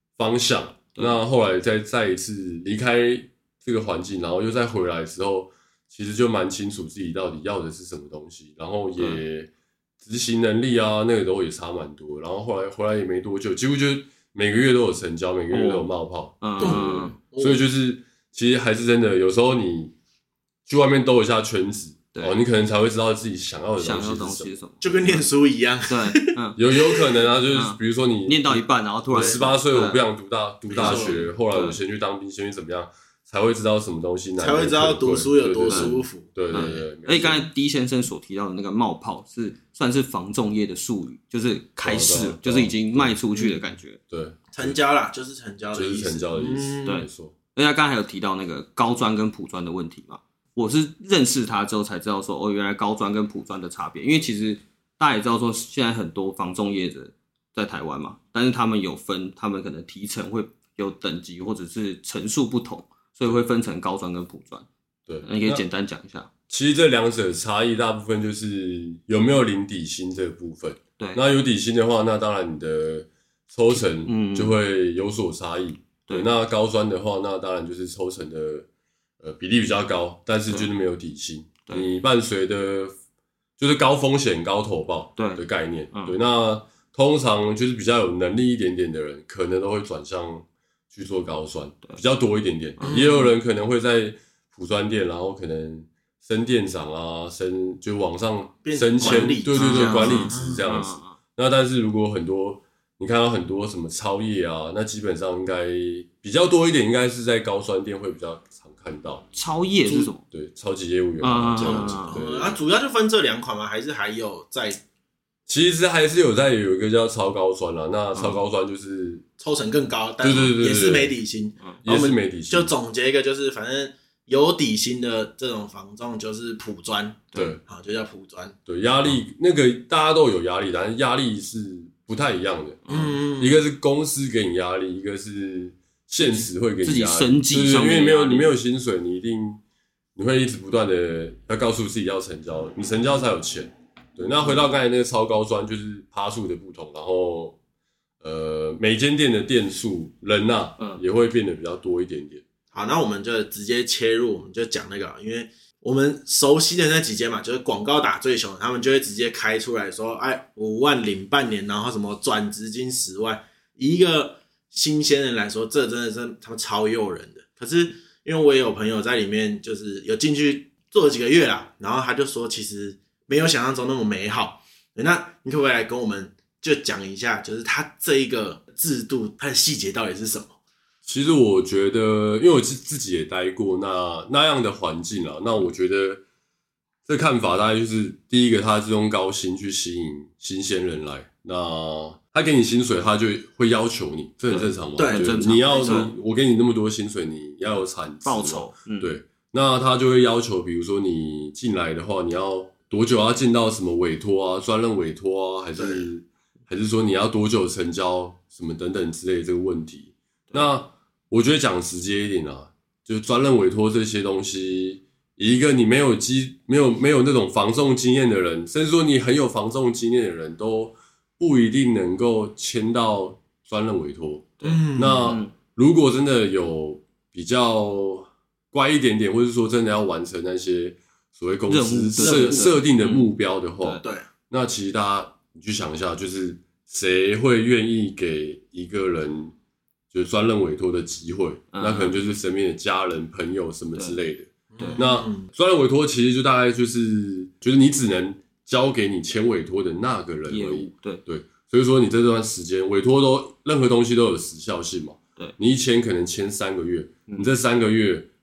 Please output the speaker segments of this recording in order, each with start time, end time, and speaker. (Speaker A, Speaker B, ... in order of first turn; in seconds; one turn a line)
Speaker A: 0.2-9.5
Speaker A: 10.0-19.9
Speaker B: 15.5-15.9
Speaker B: 16.4-17.1
Speaker C: 16.6-17.6
Speaker A: 20.7-24.6
Speaker B: 23.8-25.3
Speaker C: 24.8-27.1
Speaker B: 25.9-26.6
Speaker A: 26.6-37.5
Speaker B: 27.5-30.0
Speaker C: 29.1-29.4
Speaker C: 30.7-31.2
Speaker B: 30.8-31.8
Speaker C: 34.4-36.6
Speaker B: 35.6-35.9
Speaker B: 36.5-44.0
Speaker A: 41.8-43.2
Speaker A: 44.1-44.8
Speaker C: 44.5-47.0
Speaker A: 45.7-47.3
Speaker B: 46.8-64.7
Speaker A: 65.1-65.6
Speaker B: 65.2-66.3
Speaker A: 66.5-78.7
Speaker B: 74.0-74.6
Speaker A: 79.2-82.9
Speaker A: 83.6-109.2
Speaker B: 85.2-86.2
Speaker C: 92.8-93.3
Speaker C: 98.6-100.7
Speaker B: 99.5-101.2
Speaker B: 109.3-110.2
Speaker A: 110.2-112.6
Speaker B: 111.2-112.2
Speaker C: 111.6-114.8
Speaker A: 115.5-119.2
Speaker B: 118.1-118.4
Speaker C: 119.4-128.6
Speaker A: 120.2-121.2
Speaker A: 121.8-122.7
Speaker A: 127.3-127.6
Speaker A: 128.7-132.8
Speaker B: 132.8-133.2
Speaker C: 132.9-133.6
Speaker A: 133.4-139.6
Speaker B: 136.2-138.5
Speaker A: 140.1-147.6
Speaker A: 148.2-152.4
Speaker C: 152.7-180.6
Speaker A: 181.0-186.2
Speaker A: 187.1-239.5
Speaker B: 194.5-196.1
Speaker C: 195.0-196.1
Speaker B: 198.2-199.1
Speaker C: 205.8-206.1
Speaker B: 224.6-225.5
Speaker C: 224.6-225.3
Speaker B: 231.7-233.3
Speaker C: 232.2-232.8
Speaker C: 234.0-234.3
Speaker A: 240.1-258.3
Speaker B: 241.7-242.2
Speaker C: 244.7-245.5
Speaker B: 244.8-245.0
Speaker B: 250.5-251.2